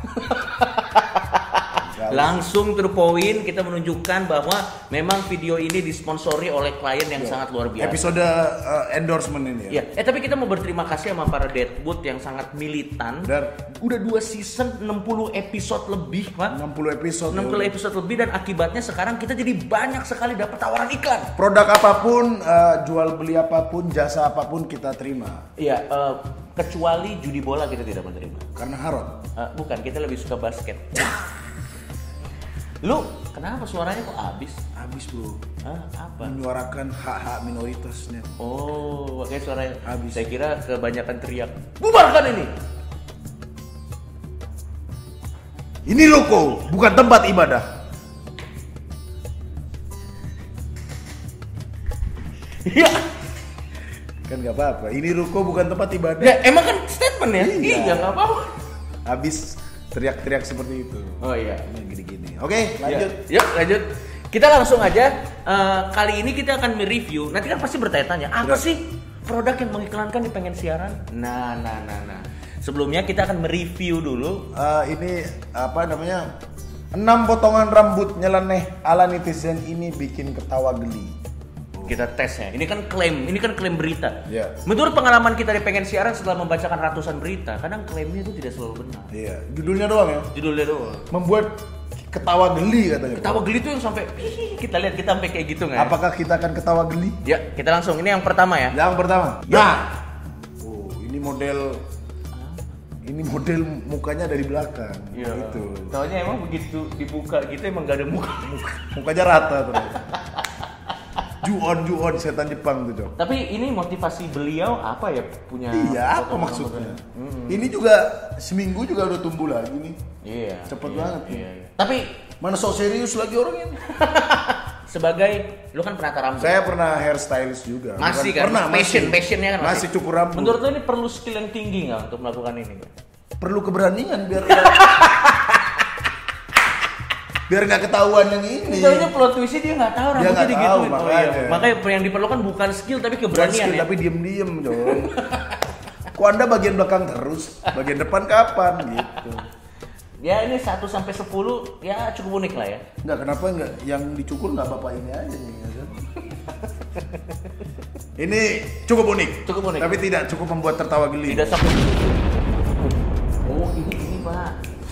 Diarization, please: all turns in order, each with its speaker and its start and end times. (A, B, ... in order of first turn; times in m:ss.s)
0:00.1-0:08.0 A
0:01.8-0:02.4 B
0:07.2-0:09.8 B
0:09.7-0:16.6 A
0:13.2-0:13.5 B
0:16.5-0:17.8 B
0:17.3-0:21.3 A
0:21.4-0:25.4 B
0:25.6-0:28.5 A
0:28.6-0:29.2 B
0:29.4-0:31.3 A
0:32.8-0:34.6 A
0:34.8-0:35.4 B
0:35.6-0:36.4 A
0:36.2-0:38.4 B
0:38.4-0:42.6 A
0:39.8-0:40.2 B
0:45.9-0:47.7 B
0:52.6-0:53.1 A
0:54.3-0:56.4 B
0:56.2-0:58.6 A
0:57.4-0:58.2 B
0:59.0-1:03.2 B
1:01.2-1:01.7 A
1:02.8-1:14.5 A
1:14.5-1:16.3 B
1:16.9-1:21.2 B
1:21.8-1:29.1 A
1:24.3-1:24.6 B
1:29.1-1:30.3 B
1:30.3-1:31.1 A
1:31.1-1:33.5 B
1:33.1-1:36.0 A
1:35.8-1:37.2 B
1:37.2-1:38.8 A
1:38.7-1:40.0 B
1:39.5-1:39.8 A
1:40.6-1:41.8 B
1:42.3-1:42.8 A
1:43.0-1:45.9 B
1:45.1-1:48.9 A
1:48.9-1:50.0 B
1:49.8-1:50.7 A
1:51.4-1:53.1 B
1:53.2-1:57.7 A
1:55.7-2:00.0 B
2:00.2-2:02.1 A
2:00.7-2:01.5 B
2:02.4-2:03.8 B
2:03.9-2:06.6 A
2:06.4-2:10.6 B
2:08.0-2:12.9 A
2:13.4-2:14.9 B
2:14.5-2:15.9 A
2:17.5-2:19.1 B
2:18.6-2:23.9 A
2:20.2-2:21.7 B
2:23.3-2:25.2 B
2:24.8-2:25.6 A
2:26.2-2:29.4 B
2:29.0-2:29.4 A
2:30.2-2:32.8 A
2:33.0-2:36.0 B
2:36.2-2:37.4 A
2:38.2-2:41.6 B
2:39.5-2:40.0 A
2:41.3-2:44.6 A